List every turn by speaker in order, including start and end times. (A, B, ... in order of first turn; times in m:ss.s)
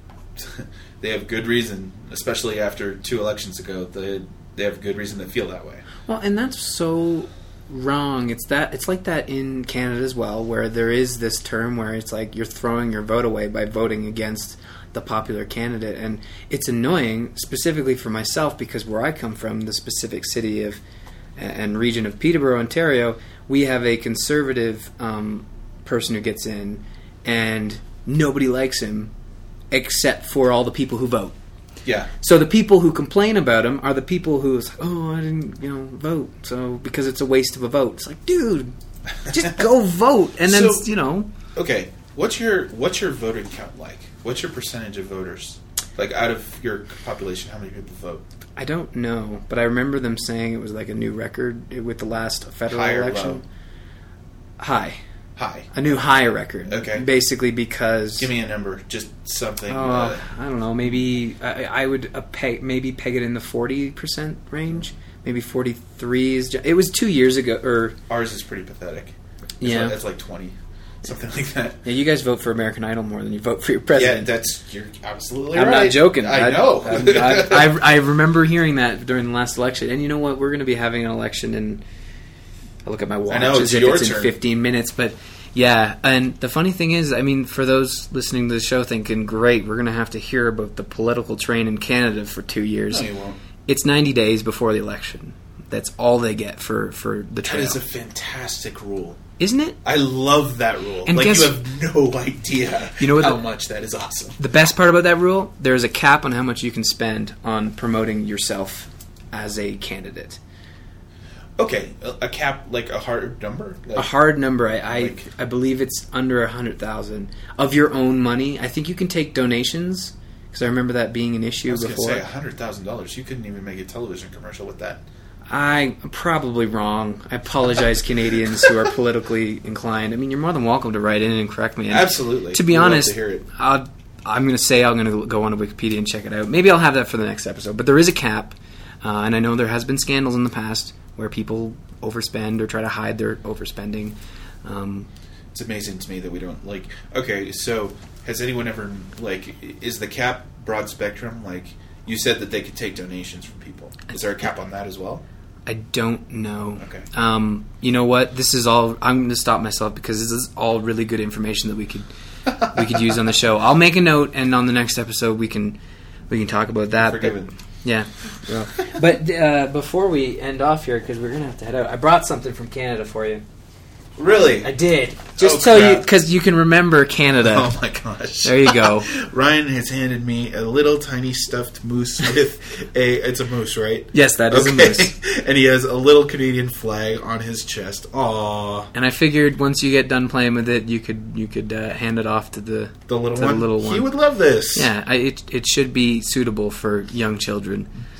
0:00.4-0:05.8 A
0:06.0-0:20.8 B
0:21.4-0:29.1 B
0:29.7-0:31.4 B
0:31.8-0:32.1 A
0:32.2-0:41.3 B
0:40.4-0:40.9 A
0:41.5-0:48.2 A
0:48.6-0:53.4 B
0:52.7-0:53.4 A
0:54.6-0:55.0 B
0:55.4-0:57.1 A
0:55.7-0:58.3 B
0:58.2-1:00.2 A
0:59.7-1:08.0 B
1:08.1-1:11.8 A
1:09.6-1:10.0 B
1:11.8-1:14.3 B
1:13.9-1:17.8 A
1:15.5-1:21.8 B
1:22.8-1:33.0 B
1:23.3-1:24.3 A
1:32.9-1:33.4 A
1:33.7-1:37.8 B
1:37.4-1:39.2 A
1:39.4-1:39.8 B
1:39.8-1:44.4 A
1:41.0-1:41.6 B
1:43.0-1:43.4 B
1:44.4-1:50.4 B
1:51.6-1:54.1 A
1:54.0-2:02.2 B
1:54.9-1:55.2 A
2:01.7-2:05.0 A
2:05.5-2:25.1 B
2:11.9-2:13.4 A
2:25.5-2:35.2 A
2:35.7-2:45.8 B
2:36.8-2:37.1 A
2:46.3-2:53.4 B
2:47.0-2:47.5 A
2:54.2-2:54.7 A
2:54.6-2:57.7 B
2:55.4-2:56.1 A
2:57.4-3:08.9 A
2:58.4-2:59.1 B
3:04.1-3:05.1 B
3:08.9-3:14.1 B
3:13.1-3:14.9 A
3:14.7-3:17.9 B